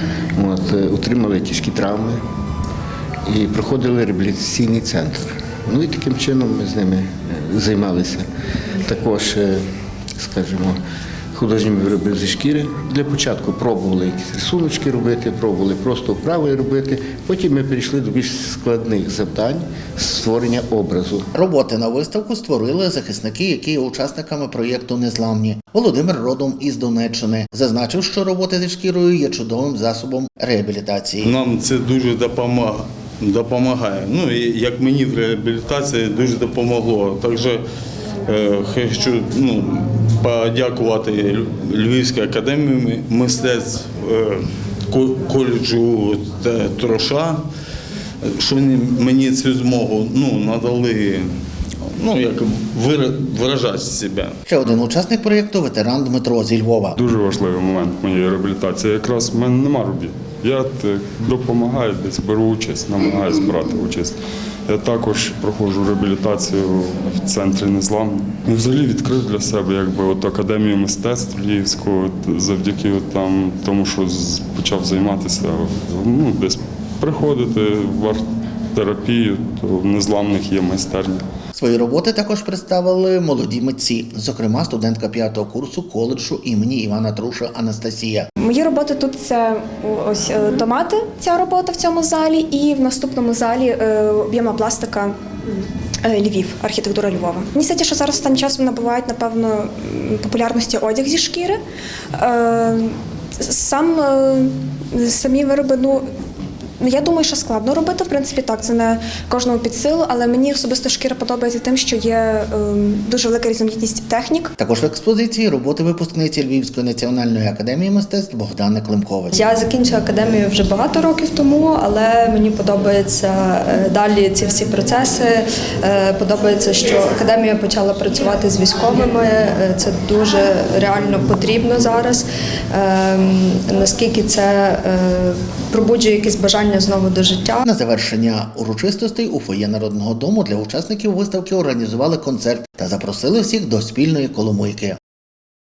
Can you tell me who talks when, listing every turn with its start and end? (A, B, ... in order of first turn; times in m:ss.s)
0:00.4-0:02.2 A
0:03.3-0:08.3 A
0:08.8-0:09.6 A
0:10.2-0:10.8 A
0:11.3-0:21.3 A
0:21.3-0:31.3 B
0:31.2-0:37.6 C
0:38.3-0:47.4 C
0:48.2-0:51.2 C
0:52.0-0:54.4 C
0:54.5-0:57.0 B
0:57.0-1:04.2 D
1:04.7-1:18.2 D
1:18.8-1:21.2 D
1:21.6-1:28.3 B
1:28.4-1:35.1 E
1:36.0-1:41.6 E
1:42.2-1:46.0 E
1:46.8-1:54.5 E
1:54.6-1:59.3 B
1:59.3-2:17.6 F
2:17.6-2:25.0 B